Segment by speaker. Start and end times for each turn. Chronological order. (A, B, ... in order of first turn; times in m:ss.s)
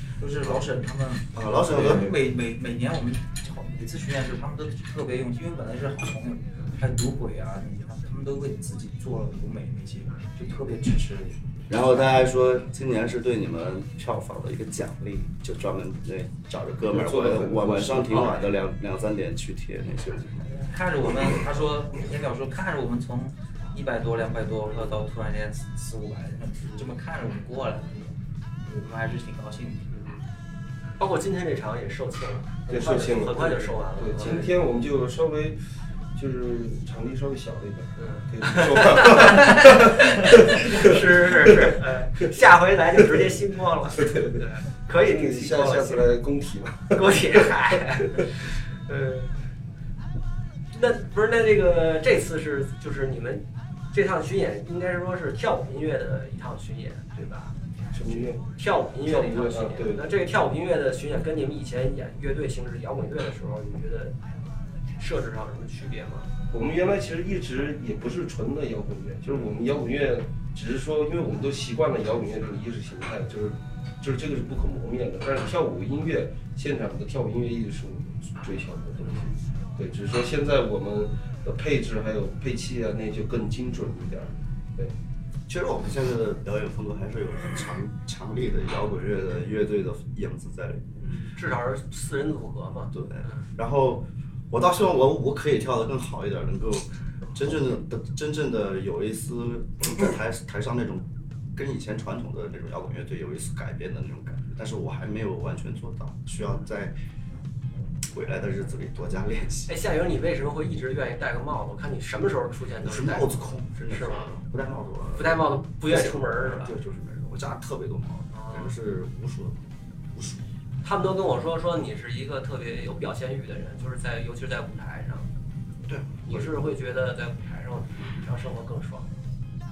0:00.2-0:11.4 A
0:00.4-0:00.7 B
0:01.3-0:02.2 B
0:01.7-0:02.2 C
0:11.7-0:20.5 B
0:16.8-0:18.3 C
0:18.1-0:18.5 A
0:20.4-0:28.2 A
0:28.8-0:29.9 A
0:29.9-0:30.2 D
0:31.0-0:34.6 D
0:32.7-0:35.6 C
0:36.1-0:41.8 C
0:38.0-0:46.1 D
0:44.0-0:44.4 C
0:45.0-0:47.5 C
0:46.9-0:49.3 D
0:50.7-0:57.5 D
0:57.9-0:58.5 C
0:58.0-1:04.2 D
0:59.0-1:00.0 C
1:05.0-1:06.3 D
1:06.5-1:24.9 C
1:25.5-1:30.8 B
1:31.0-1:33.4 D
1:32.9-1:46.9 B
1:48.1-1:49.7 B
1:49.7-1:53.3 D
1:52.8-2:00.4 B
1:53.9-1:54.3 D
1:55.2-1:56.7 D
1:58.3-1:58.7 D
2:00.8-2:05.3 D
2:05.8-2:06.5 B
2:06.2-2:09.1 D